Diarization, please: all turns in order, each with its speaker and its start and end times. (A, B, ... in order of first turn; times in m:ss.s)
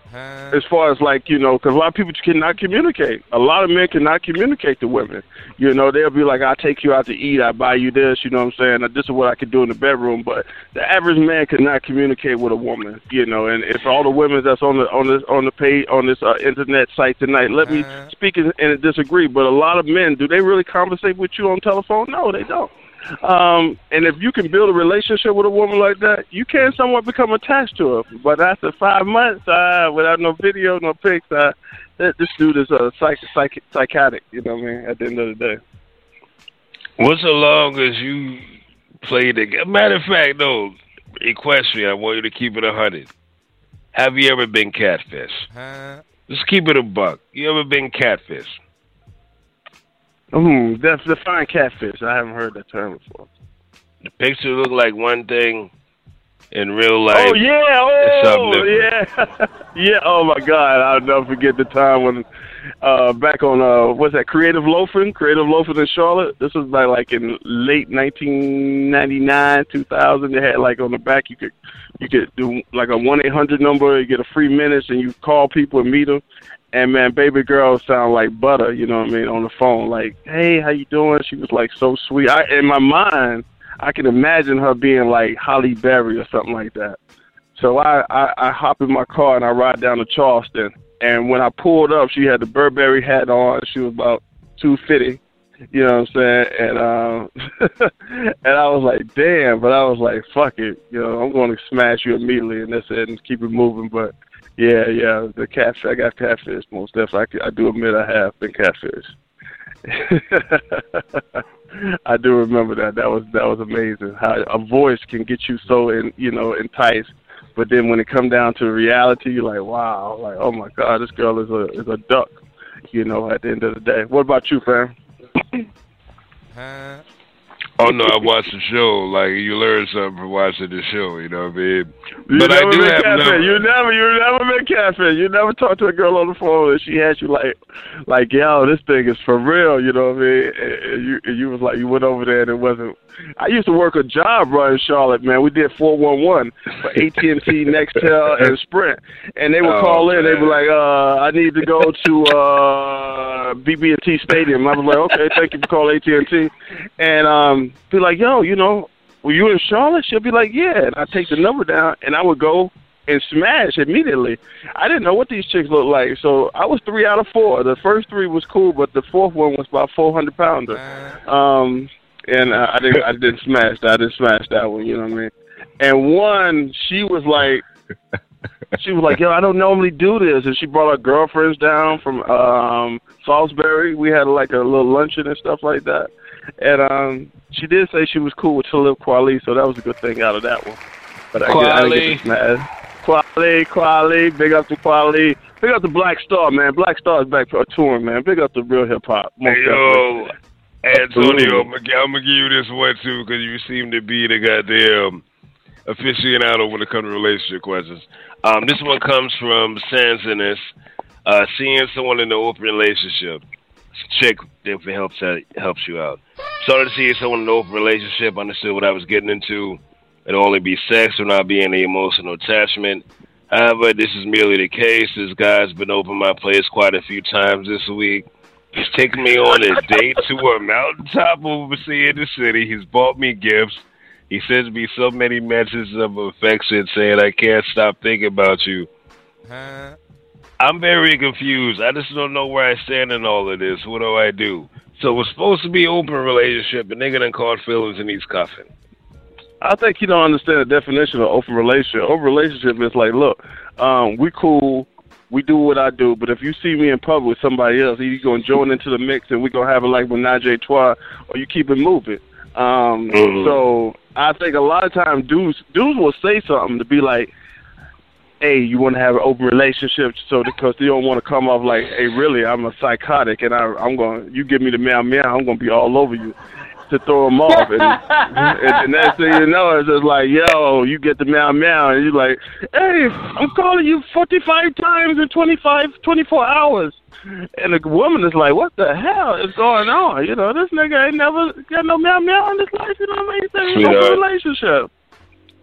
0:00.5-0:22.7 A
0:23.2-0:35.6 A
0:37.0-0:38.5 B
0:39.0-0:43.1 B
0:43.9-0:45.5 B
0:46.3-0:48.6 B
0:50.3-0:53.3 A
0:54.2-0:55.7 B
0:56.5-0:57.4 B
0:57.1-1:02.2 A
0:58.0-0:58.9 B
1:02.8-1:16.2 A
1:16.7-1:27.0 A
1:27.6-1:35.2 A
1:35.7-1:49.1 A
1:49.9-1:51.2 A
1:52.0-2:02.4 A
2:02.9-2:04.9 A
2:07.8-2:13.6 B
2:12.3-2:17.6 A
2:18.1-2:57.6 A
2:29.6-2:30.6 B
2:58.8-3:10.8 A
3:11.3-3:20.1 A
3:11.4-3:12.3 B
3:19.4-3:20.3 B
3:20.8-3:25.2 B
3:25.8-3:30.6 B
3:31.2-3:33.4 B
3:34.0-3:48.2 B
3:48.8-3:58.9 B
4:00.6-4:08.7 B
4:09.6-4:27.3 A
4:23.1-4:23.6 B
4:28.4-4:36.3 A
4:36.9-4:47.0 A
4:47.6-4:54.9 A
4:53.7-4:54.1 B